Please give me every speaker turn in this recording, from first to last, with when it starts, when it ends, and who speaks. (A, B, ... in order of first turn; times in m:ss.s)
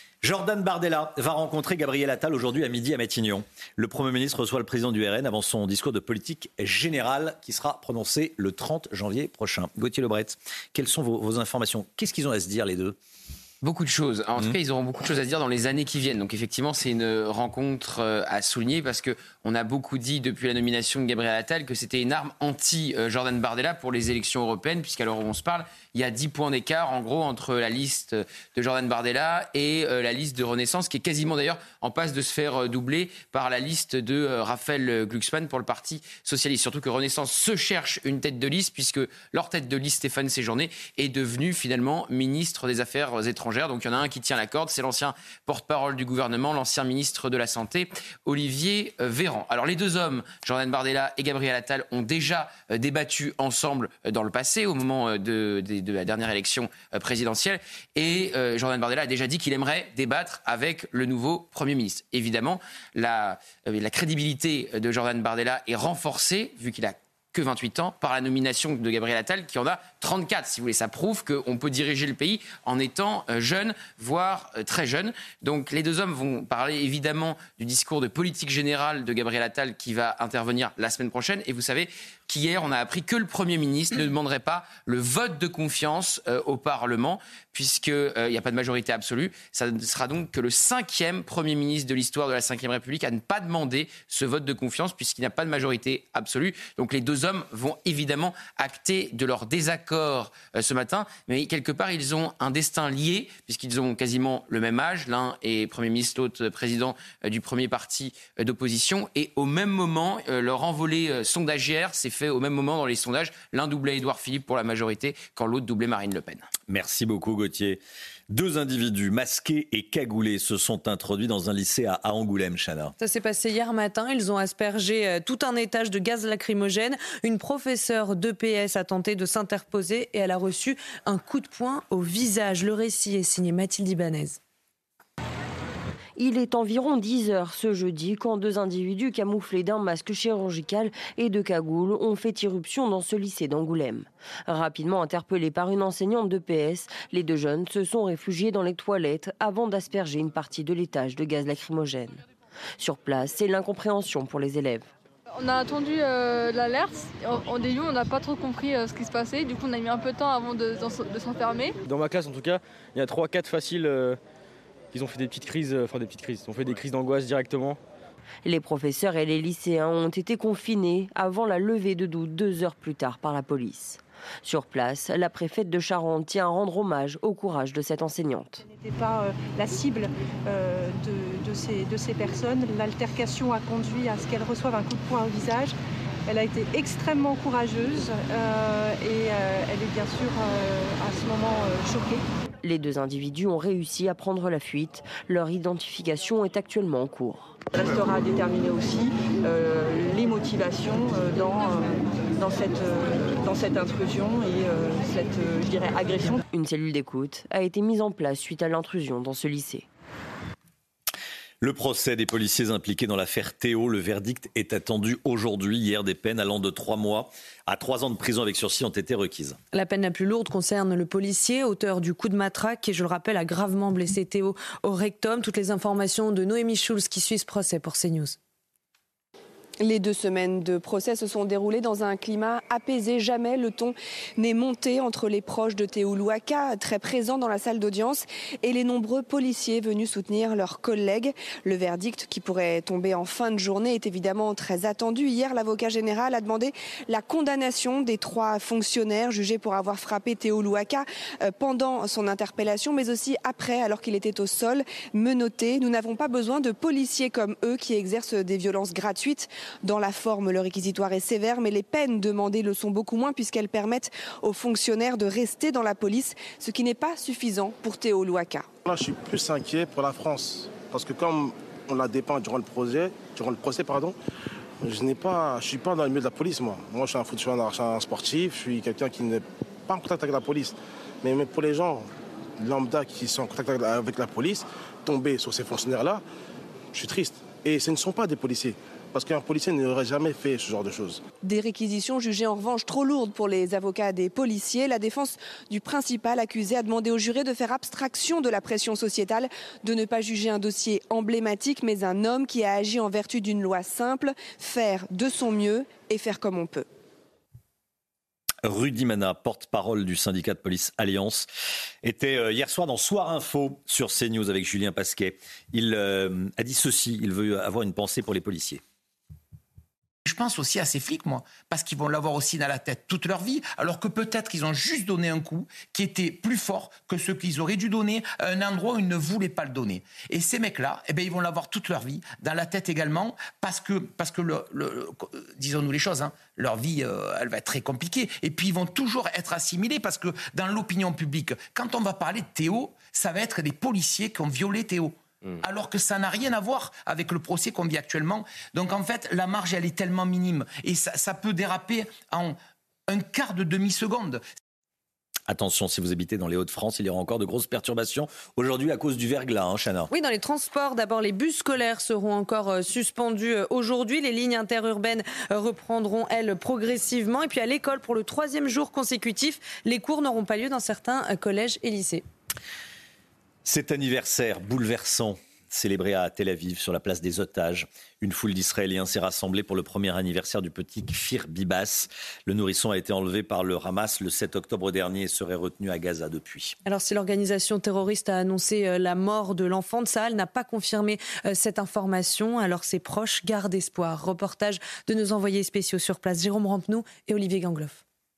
0:00.2-0:13.0 A
0:13.6-1:56.5 B
1:56.7-2:02.9 A
2:03.0-2:14.4 C
2:16.2-2:32.2 D
2:32.8-2:34.9 D
2:35.3-2:41.8 E
2:41.8-2:44.2 F
2:44.9-2:47.8 F
2:48.4-2:58.6 D
2:58.7-3:05.8 G
3:06.3-3:12.2 G
3:12.6-3:17.5 D
3:17.7-3:26.4 G
3:26.5-3:29.9 D
3:31.6-3:39.6 A
3:39.7-3:48.4 C
3:49.8-4:28.7 H
4:28.9-4:34.2 I
4:34.8-4:42.1 I
4:42.6-4:46.2 I
4:46.9-4:51.2 I
4:51.4-5:06.9 H
5:08.6-5:11.5 A
5:12.0-5:18.8 A
5:20.2-5:52.6 J
5:53.1-5:54.4 J
5:55.5-6:00.1 A
6:00.1-6:12.2 C
6:13.6-6:26.8 A
6:26.9-6:38.0 C